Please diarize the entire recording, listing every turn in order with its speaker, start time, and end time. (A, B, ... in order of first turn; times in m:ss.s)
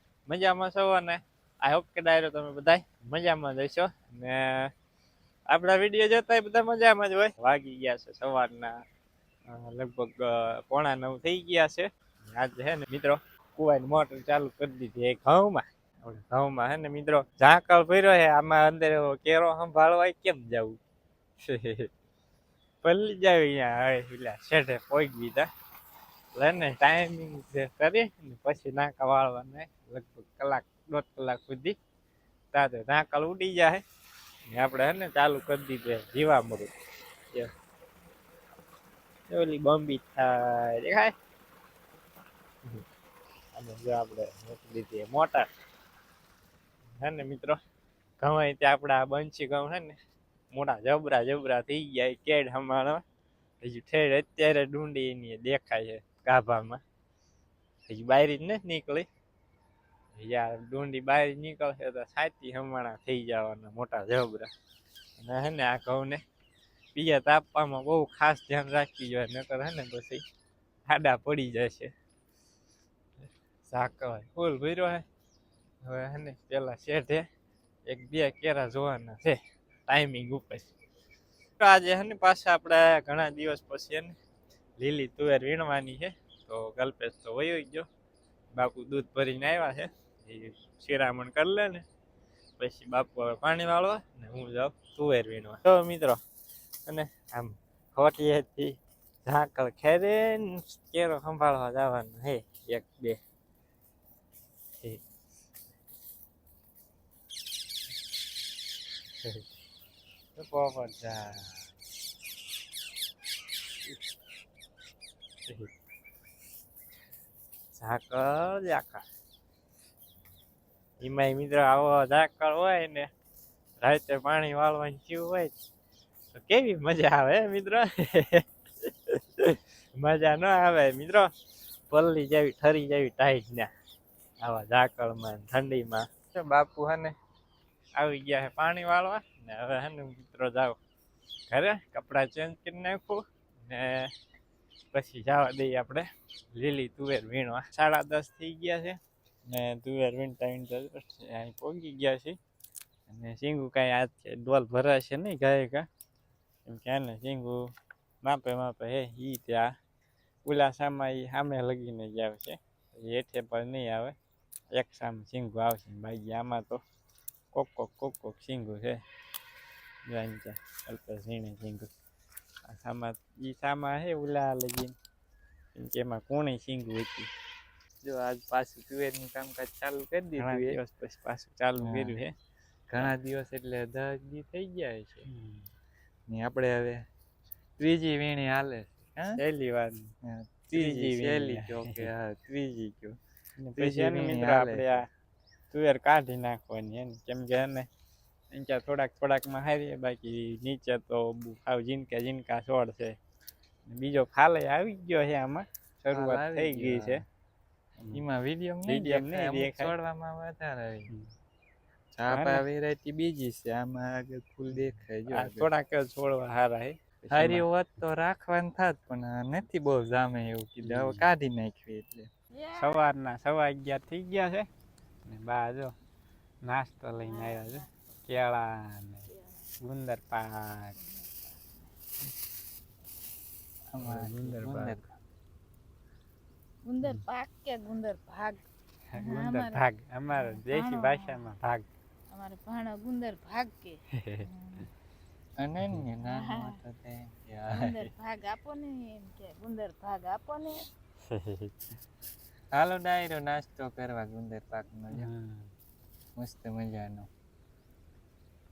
0:00.3-0:04.7 A
0:05.5-0:08.8 A
0:09.5-0:20.8 A
0:21.4-0:21.9 A
0:22.8-0:25.5 A
0:26.3-0:31.8 A
0:32.5-0:33.8 A
0:34.5-0:36.7 A
0:39.3-0:41.1 A
0:43.5-0:45.5 A
0:47.0-0:47.6 A
0:48.2-0:50.0 A
0:50.5-0:53.0 A
0:53.6-0:56.8 A
0:57.9-0:59.1 A
1:00.2-1:04.5 A
1:05.2-1:06.2 A
1:07.0-1:10.2 A
1:10.8-1:11.9 A
1:13.7-1:15.0 A
1:15.8-1:17.3 A
1:17.9-1:20.7 A
1:21.6-1:24.2 A
1:24.8-1:27.9 A
1:28.5-1:31.8 A
1:32.6-1:36.2 A
1:36.9-1:43.2 A
1:50.4-1:51.6 A
1:57.7-1:59.1 A
2:01.0-2:03.1 A
2:03.8-2:05.5 A
2:06.3-2:11.3 A
2:11.9-2:13.7 A
2:14.4-2:16.1 A
2:16.3-2:17.2 B
2:18.0-2:20.8 A
2:21.5-2:24.1 A
2:24.9-2:32.4 A
2:33.1-2:35.9 A
2:36.7-2:37.6 A
2:38.2-2:39.7 A
2:40.4-2:44.2 A
2:44.7-2:46.8 A
2:47.5-2:49.0 A
2:50.1-2:51.9 A
2:52.7-2:54.9 A
2:55.8-2:57.3 A
2:58.0-3:00.8 B
3:00.4-3:02.3 A
3:01.8-3:02.2 B
3:02.9-3:05.2 B
3:05.3-3:05.6 A
3:06.3-3:07.0 B
3:07.8-3:09.4 B
3:09.4-3:10.1 A
3:10.2-3:13.2 B
3:10.7-3:12.1 A
3:13.6-3:15.1 A
3:13.8-3:15.0 B
3:15.7-3:17.9 A
3:18.5-3:23.2 A
3:23.9-3:27.2 A
3:26.1-3:27.2 B
3:28.1-3:31.1 B
3:28.9-3:29.9 A
3:32.1-3:35.7 B
3:32.3-3:32.6 A
3:35.3-3:37.6 A
3:37.3-3:42.3 B
3:40.9-3:41.2 A
3:42.5-3:43.1 C
3:42.8-3:44.7 A
3:45.2-3:45.9 A
3:46.6-3:49.2 A
3:47.2-3:47.8 C
3:49.3-3:49.6 C
3:49.8-3:51.0 A
3:51.0-3:51.9 C
3:53.9-3:55.0 B
3:54.0-3:54.9 A
3:56.8-3:58.6 C
3:59.2-4:01.9 A
3:59.2-4:01.5 C
4:02.3-4:04.9 C
4:05.6-4:08.0 B
4:06.2-4:06.8 C
4:07.7-4:10.8 C
4:11.3-4:11.7 A
4:12.7-4:15.3 B
4:15.2-4:15.7 A
4:16.4-4:17.3 B